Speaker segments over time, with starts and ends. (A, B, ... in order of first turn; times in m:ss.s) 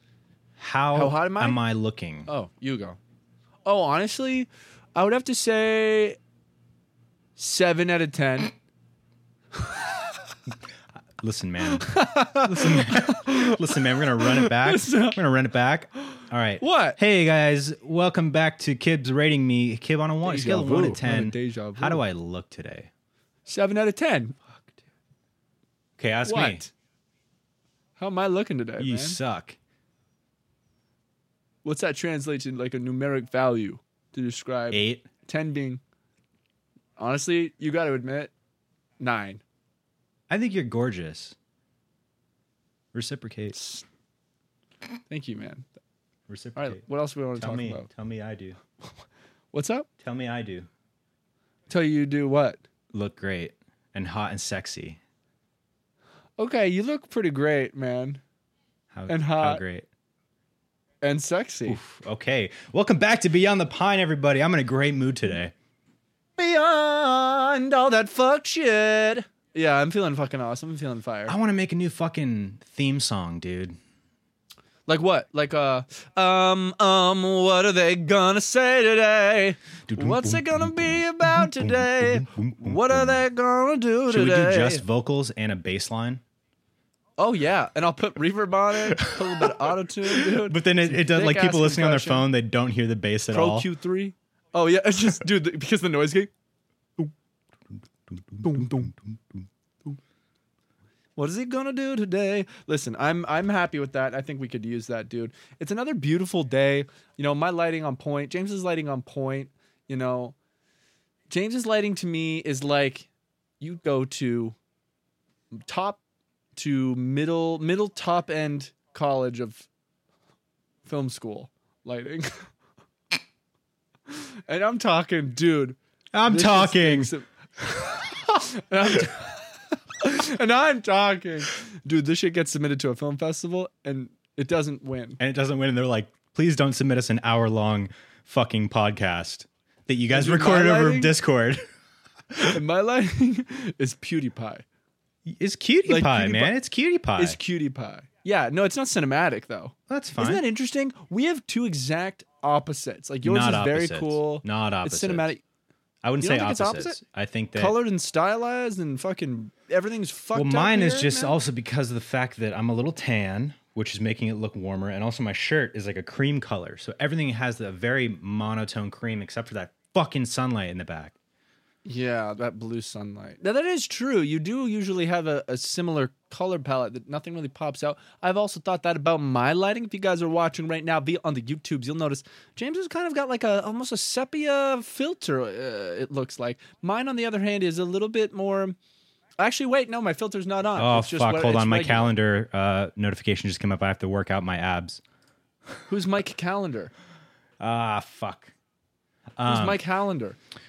0:00.6-0:02.3 A
0:00.9-0:01.6 B
0:02.3-0:03.0 B
0:03.6-0:06.2 B
0:07.4-0:08.5 B
0:11.2-0:22.9 A
0:11.7-0:15.2 B
0:16.6-0:17.0 B
0:20.2-0:22.0 B
0:23.5-0:24.4 B
0:26.0-0:26.6 A
0:26.2-0:26.7 B
0:28.0-0:29.2 B
0:28.8-0:29.6 A
0:31.6-0:35.8 B
0:34.7-0:35.0 A
0:37.0-0:38.3 B
0:39.0-0:39.4 B
0:40.3-0:41.4 A
0:42.9-0:43.6 A
0:43.6-0:43.8 B
0:45.1-0:45.7 B
0:46.3-0:46.8 A
0:46.6-0:47.9 B
0:47.4-0:48.6 A
0:49.5-0:49.9 B
0:50.0-0:50.7 A
0:51.7-0:52.6 B
0:52.9-0:55.0 A
0:56.4-0:58.2 B
0:58.9-0:59.9 A
0:59.1-0:59.6 B
1:01.0-1:01.8 B
1:01.6-1:05.5 A
1:06.4-1:11.4 B
1:11.3-1:13.8 A
1:14.9-1:24.8 B
1:19.9-1:23.2 A
1:24.1-1:26.2 A
1:27.2-1:32.2 B
1:28.8-1:33.7 A
1:33.3-1:36.3 B
1:38.1-1:38.9 A
1:38.4-1:38.9 B
1:41.2-1:50.4 B
1:51.3-1:53.1 B
1:53.6-1:54.5 B
1:55.5-1:56.0 B
1:56.6-1:59.6 B
2:00.8-2:02.5 B
2:04.1-2:09.5 B
2:06.1-2:07.1 A
2:10.0-2:15.2 B
2:15.2-2:21.6 A
2:20.1-2:21.1 B
2:22.3-2:22.6 A
2:22.5-2:24.6 B
2:25.2-2:27.4 A
2:25.9-2:26.5 B
2:27.2-2:35.4 B
2:29.9-2:30.4 A
2:33.2-2:35.3 A
2:36.0-2:37.8 A
2:36.2-2:37.0 B
2:37.5-2:41.3 B
2:40.3-2:51.1 A
2:51.8-3:08.8 B
3:09.4-3:12.1 B
3:10.7-3:15.0 A
3:15.9-3:16.9 B
3:17.6-3:18.5 A
3:19.4-3:19.8 A
3:19.4-3:20.4 B